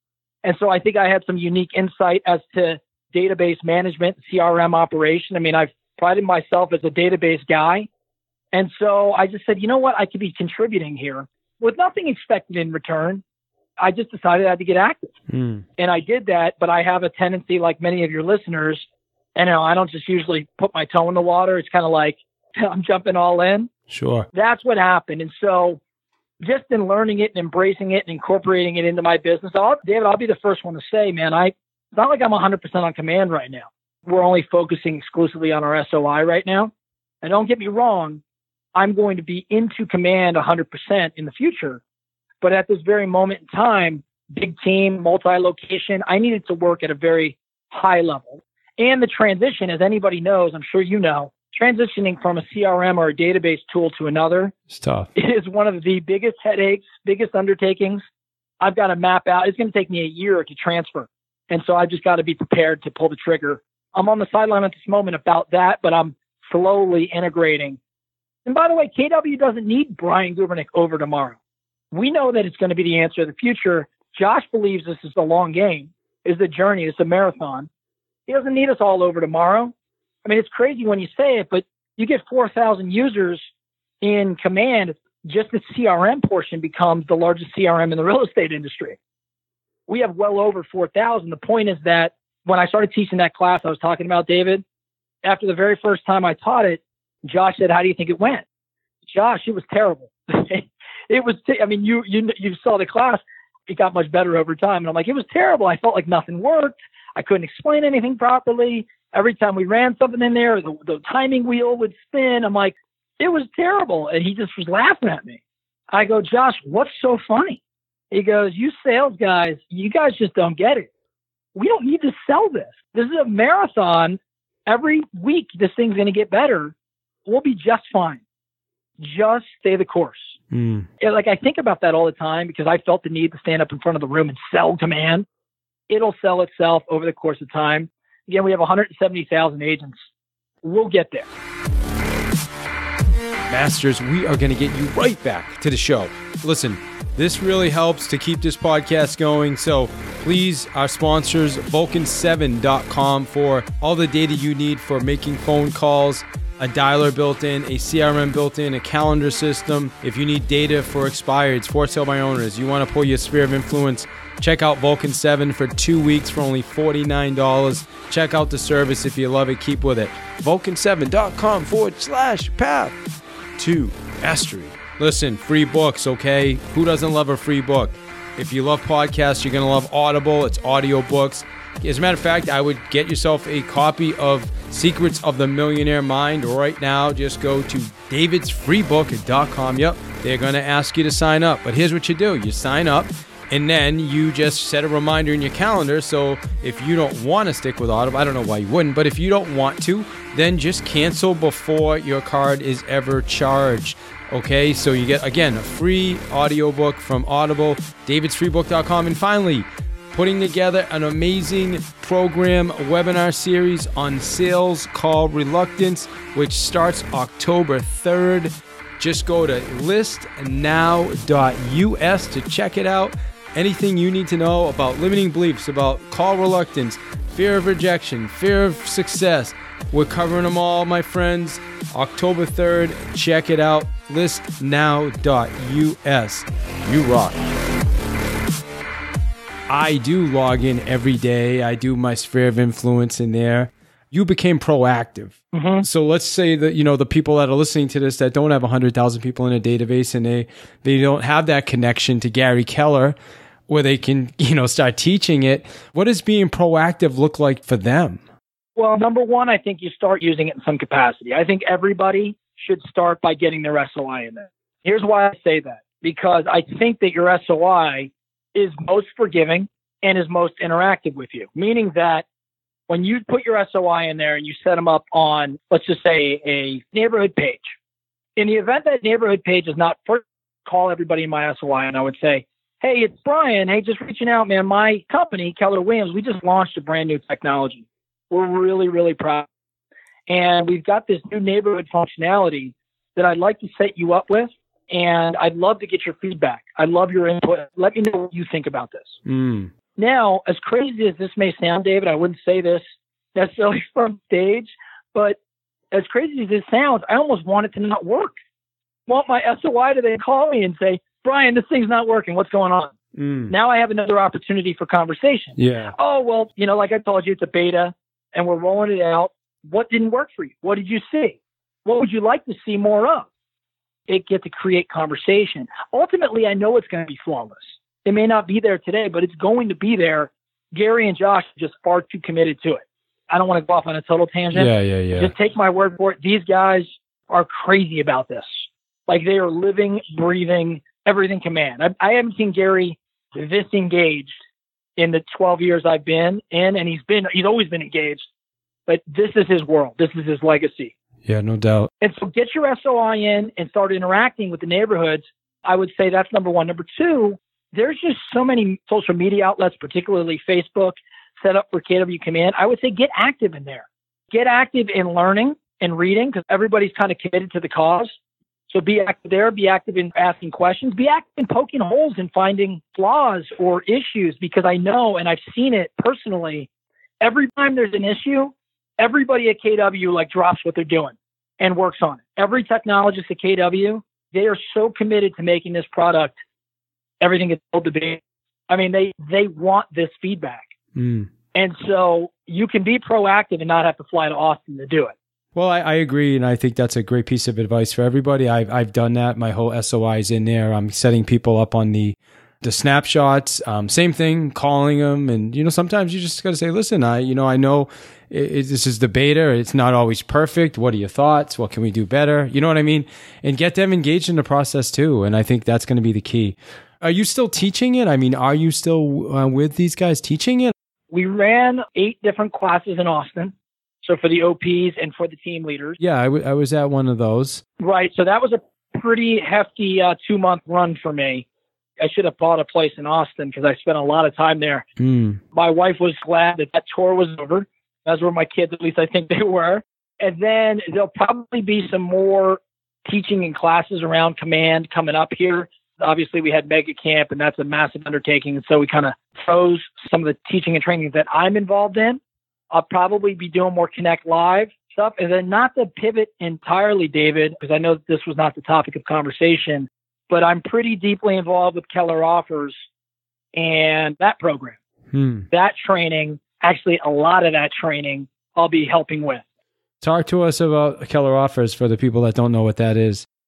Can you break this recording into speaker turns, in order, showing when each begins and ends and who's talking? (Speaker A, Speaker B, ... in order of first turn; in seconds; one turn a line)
Speaker A: 0.4-7.9
Speaker A: 8.5-13.2
Speaker A: 13.8-15.1
Speaker B: 15.3-15.6
Speaker A: 15.8-23.7
Speaker B: 23.9-24.3
Speaker A: 24.3-25.8
Speaker A: 26.4-36.7
Speaker A: 37.2-38.2
Speaker A: 38.7-41.8
Speaker A: 42.4-54.5
Speaker B: 54.7-55.1
Speaker A: 55.1-58.0
Speaker A: 58.6-67.8
Speaker A: 68.5-71.4
Speaker A: 71.9-77.7
Speaker A: 78.3-79.7
Speaker A: 80.2-83.4
Speaker A: 84.0-89.0
Speaker A: 89.9-94.6
Speaker A: 95.2-98.4
Speaker A: 99.1-115.4
Speaker A: 115.9-117.6
Speaker A: 118.1-120.9
Speaker A: 121.5-126.7
Speaker A: 127.2-128.2
Speaker A: 129.0-130.3
Speaker B: 130.5-130.9
Speaker A: 131.0-135.2
Speaker A: 135.9-140.0
Speaker A: 140.6-141.3
Speaker B: 143.5-172.9
Speaker B: 173.6-237.5
Speaker B: 239.7-253.1
Speaker A: 245.5-245.8
Speaker B: 253.7-258.2
Speaker A: 258.8-272.2
Speaker A: 272.9-277.7
Speaker A: 278.4-289.5
Speaker A: 290.3-299.2
Speaker B: 299.2-299.7
Speaker A: 299.9-302.8
Speaker A: 303.3-305.4
Speaker A: 305.9-308.3
Speaker A: 309.1-312.9
Speaker B: 313.1-313.5
Speaker A: 313.5-323.3
Speaker B: 315.6-315.9
Speaker A: 324.1-344.4
Speaker B: 334.5-335.3
Speaker A: 345.0-348.2
Speaker A: 348.9-350.9
Speaker B: 351.2-351.9
Speaker A: 352.0-368.1
Speaker A: 368.7-376.7
Speaker A: 377.2-386.4
Speaker A: 387.2-390.7
Speaker B: 390.9-391.3
Speaker A: 391.5-395.1
Speaker B: 395.5-420.7
Speaker A: 421.1-426.0
Speaker B: 426.0-427.6
Speaker A: 427.8-431.4
Speaker A: 432.0-434.8
Speaker B: 435.0-435.4
Speaker A: 435.5-452.2
Speaker A: 452.7-462.7
Speaker A: 463.5-464.8
Speaker B: 465.1-465.5
Speaker A: 465.5-469.4
Speaker B: 470.0-473.2